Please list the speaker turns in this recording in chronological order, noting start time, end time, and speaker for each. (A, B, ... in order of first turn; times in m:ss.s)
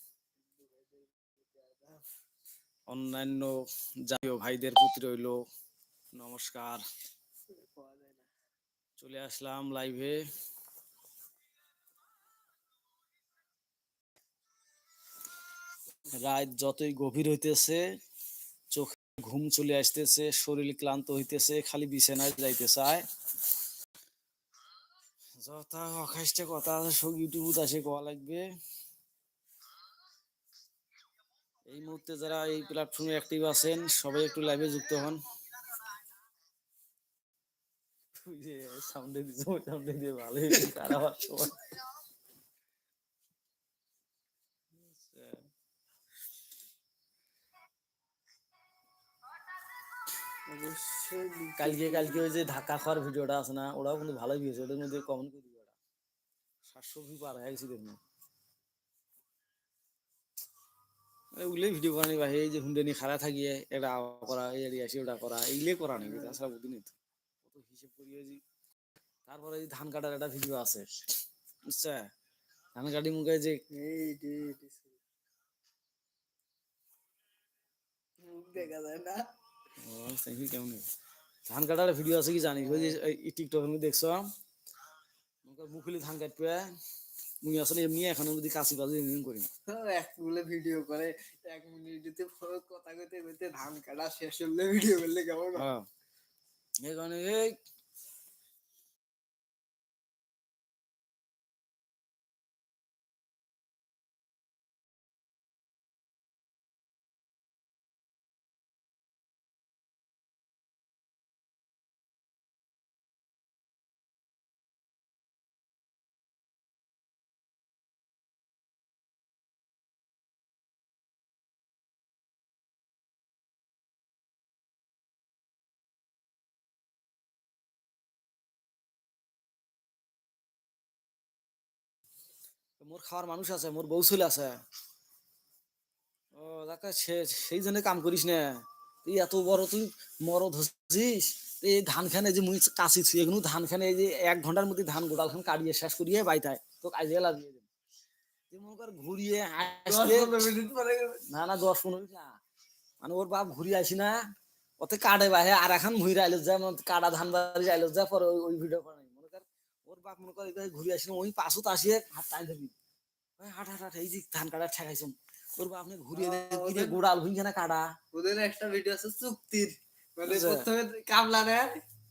0:00.4-0:02.0 A
0:02.9-0:03.5 B
0:04.1-0:05.4 B
0:06.1-0:06.8 B
0:07.6-0:08.3 A
0:09.0-0:10.2 B
0:16.1-0:17.8 B
0:18.7-0:23.0 B
0:25.4-0:28.4 B
0:31.7-0:35.2 B
0:38.2-0:41.7 B
0:44.8-0:45.4 B
0:50.5-0:52.2 A
0:51.6-0:55.7 B
0:56.7-0:58.0 B
1:01.3-1:08.4 B
1:06.0-1:06.4 A
1:09.2-1:10.8 B
1:11.7-1:12.1 B
1:12.7-1:13.6 B
1:13.7-1:15.0 A
1:18.2-1:19.2 A
1:19.8-1:20.8 B
1:21.5-1:24.2 B
1:22.5-1:23.0 A
1:25.4-1:26.6 B
1:27.4-1:29.4 B
1:29.7-1:35.7 A
1:35.6-1:35.8 B
1:36.8-1:37.5 B
2:12.8-2:14.6 B
2:16.4-2:18.4 B
2:19.0-2:27.7 B
2:28.5-2:30.4 B
2:29.8-2:31.2 A
2:31.3-2:32.3 B
2:33.0-2:34.2 B
2:34.8-2:42.7 B
2:43.4-2:47.8 B
2:46.1-2:47.0 A
2:48.1-2:51.7 A
2:50.2-2:50.6 B